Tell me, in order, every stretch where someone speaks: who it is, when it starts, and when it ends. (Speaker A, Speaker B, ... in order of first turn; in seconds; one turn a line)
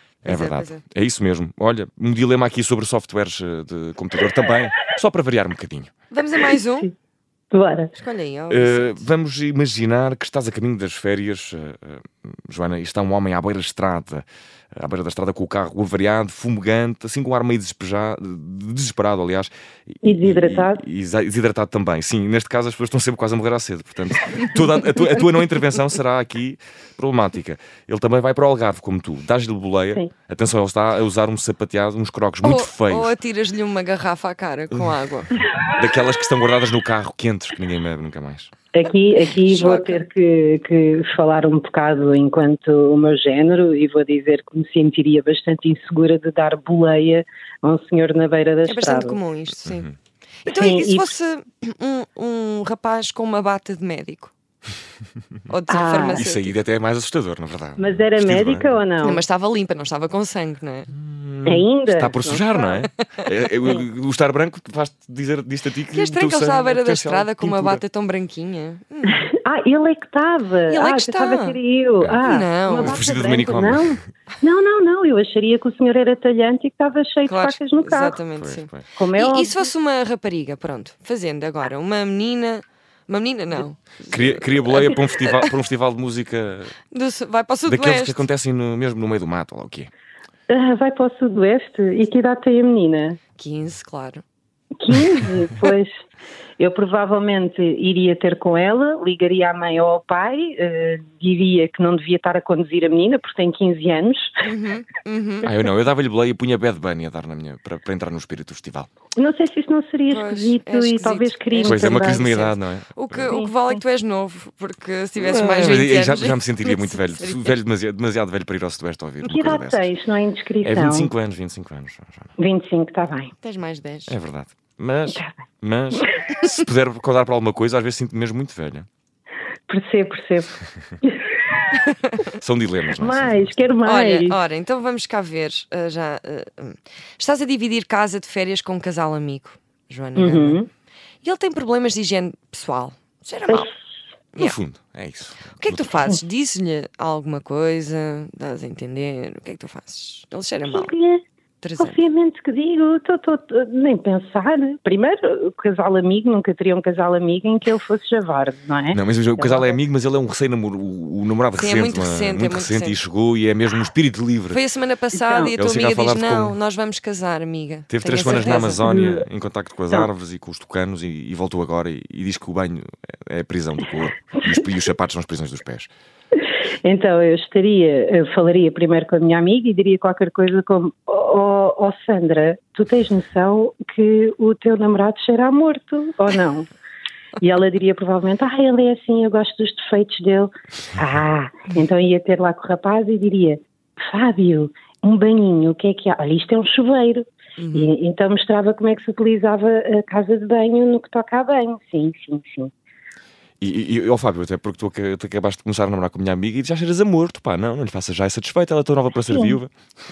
Speaker A: 0.2-5.9
Speaker B: 0.2-0.8
Speaker B: 6.1-6.9
Speaker C: 7.5-7.9
Speaker B: 8.0-9.0
Speaker A: 8.5-33.1
Speaker C: 20.0-20.8
Speaker B: 32.4-35.3
Speaker A: 35.6-38.5
Speaker C: 38.7-49.2
Speaker B: 39.4-40.0
Speaker B: 48.6-49.9
Speaker A: 49.6-49.9
Speaker B: 50.4-54.3
Speaker C: 50.5-51.1
Speaker B: 55.5-56.5
Speaker C: 55.7-56.2
Speaker A: 56.1-58.7
Speaker C: 57.8-59.2
Speaker B: 59.0-60.9
Speaker A: 60.9-67.8
Speaker C: 61.4-62.8
Speaker B: 63.2-63.7
Speaker B: 65.9-69.2
Speaker C: 69.1-78.2
Speaker B: 70.7-71.6
Speaker A: 72.0-74.0
Speaker B: 72.2-73.0
Speaker B: 77.2-85.5
Speaker A: 78.3-78.8
Speaker C: 79.0-79.7
Speaker A: 84.1-86.7
Speaker B: 86.9-88.2
Speaker A: 87.7-89.9
Speaker C: 90.5-93.2
Speaker B: 93.4-94.2
Speaker C: 94.8-96.0
Speaker C: 96.6-104.4
Speaker B: 104.4-105.5
Speaker A: 105.4-108.9
Speaker C: 109.2-112.3
Speaker B: 110.1-117.6
Speaker A: 111.6-113.3
Speaker C: 113.3-113.8
Speaker A: 115.2-119.9
Speaker C: 119.2-121.1
Speaker A: 120.6-122.3
Speaker C: 122.4-123.3
Speaker B: 123.4-124.1
Speaker A: 124.1-128.9
Speaker C: 125.1-125.4
Speaker C: 129.7-131.2
Speaker A: 132.3-133.5
Speaker C: 133.0-134.4
Speaker B: 133.8-140.6
Speaker C: 140.2-140.7
Speaker B: 141.2-143.7
Speaker C: 143.5-143.7
Speaker A: 144.4-146.1
Speaker B: 145.6-150.9
Speaker C: 150.7-151.2
Speaker B: 151.6-152.0
Speaker C: 151.8-159.7
Speaker A: 158.9-164.6
Speaker B: 161.6-163.0
Speaker B: 164.5-168.8
Speaker C: 165.1-165.6
Speaker A: 165.6-166.6
Speaker A: 167.9-175.9
Speaker C: 168.2-169.2
Speaker C: 176.8-186.7
Speaker C: 187.4-202.7
Speaker B: 197.6-197.9
Speaker A: 203.6-209.7
Speaker C: 209.3-209.6